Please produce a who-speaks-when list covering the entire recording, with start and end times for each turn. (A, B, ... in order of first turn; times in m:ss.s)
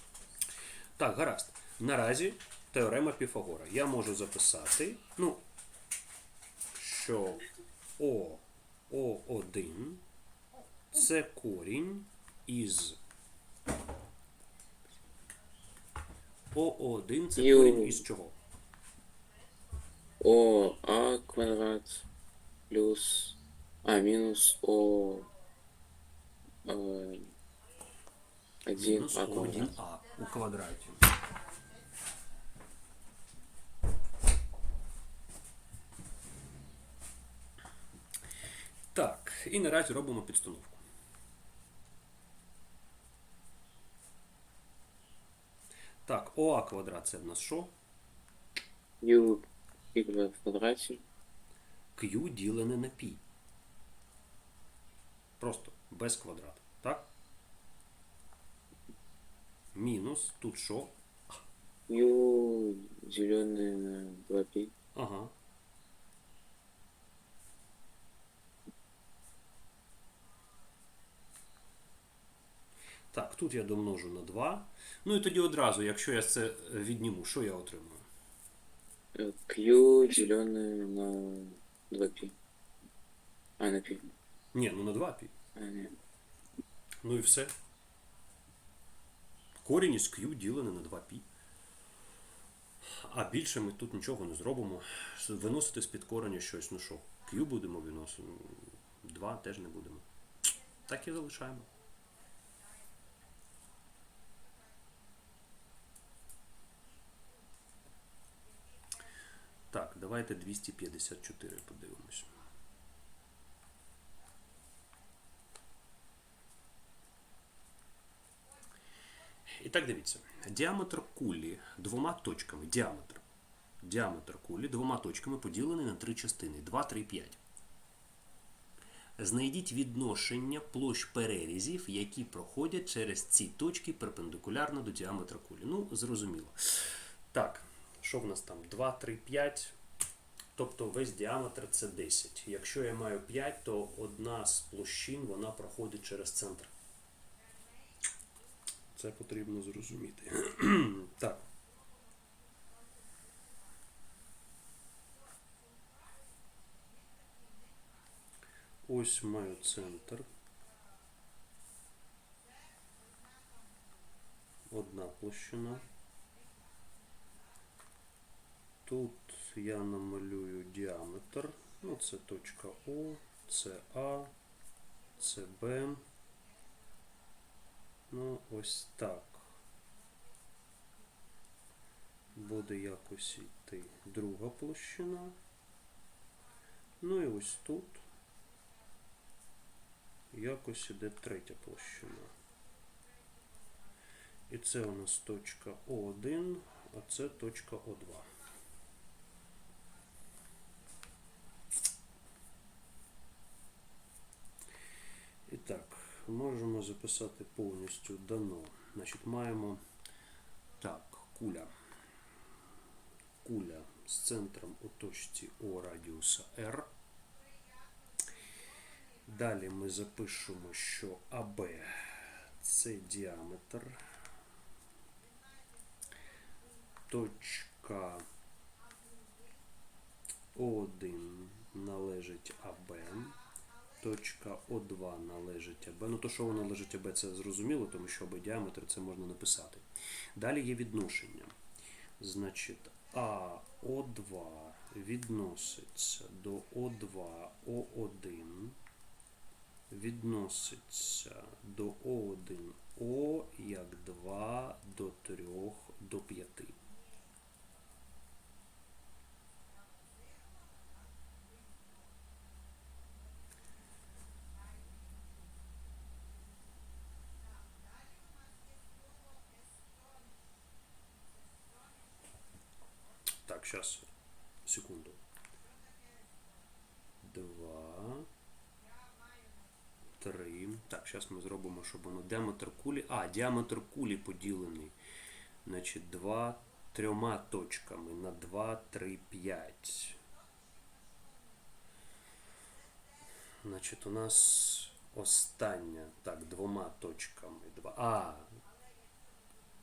0:01.0-0:05.4 A
0:06.8-0:07.5 A
0:08.0-0:10.0 A
0:10.9-0:13.0 A
0:16.5-0:18.4 A
0:17.4-0:18.0 B
0:20.2-0:22.0 B
0:22.7-0:25.3 B
0:26.7-0:27.3 B
0:28.7-0:29.7 B
0:28.8-0:31.1 A
0:38.9-0:40.8 A
0:46.1-0:47.7 A
0:49.0-0:51.0 B
0:52.0-0:53.2 A
0:55.4-0:57.1 A
0:59.8-1:01.4 A
1:01.9-1:04.7 B
1:05.0-1:05.3 A
1:13.1-1:18.0 A
1:19.2-1:22.3 B
1:23.6-1:24.1 B
1:24.5-1:25.3 A
1:25.6-1:26.0 B
1:27.0-1:27.5 A
1:29.6-1:31.2 A
1:32.8-1:40.0 A
1:40.9-1:41.7 A
1:49.7-1:52.3 A
1:59.5-2:03.2 A
2:03.8-2:07.4 A
2:09.2-2:19.7 A
2:20.6-2:26.7 A
2:29.0-2:31.5 A
2:38.9-2:40.3 A
2:44.7-2:45.9 A
2:48.9-2:54.3 A
2:55.2-2:56.0 A
2:58.1-2:59.4 A
3:02.4-3:05.4 A
3:07.0-3:08.0 A
3:10.3-3:12.3 A
3:14.5-3:18.3 A
3:25.5-3:29.8 A
3:30.8-3:31.7 A
3:33.4-3:36.9 A
3:39.3-3:44.0 A
3:47.1-3:48.2 A
3:50.6-3:53.4 A
3:54.0-3:59.8 A
4:00.4-4:01.6 A
4:02.2-4:08.8 A
4:09.9-4:16.8 A
4:33.4-4:34.1 A
4:34.6-4:35.2 A
4:37.2-4:38.3 A
4:40.2-4:45.0 A
4:45.6-4:50.2 A
4:53.6-4:58.5 A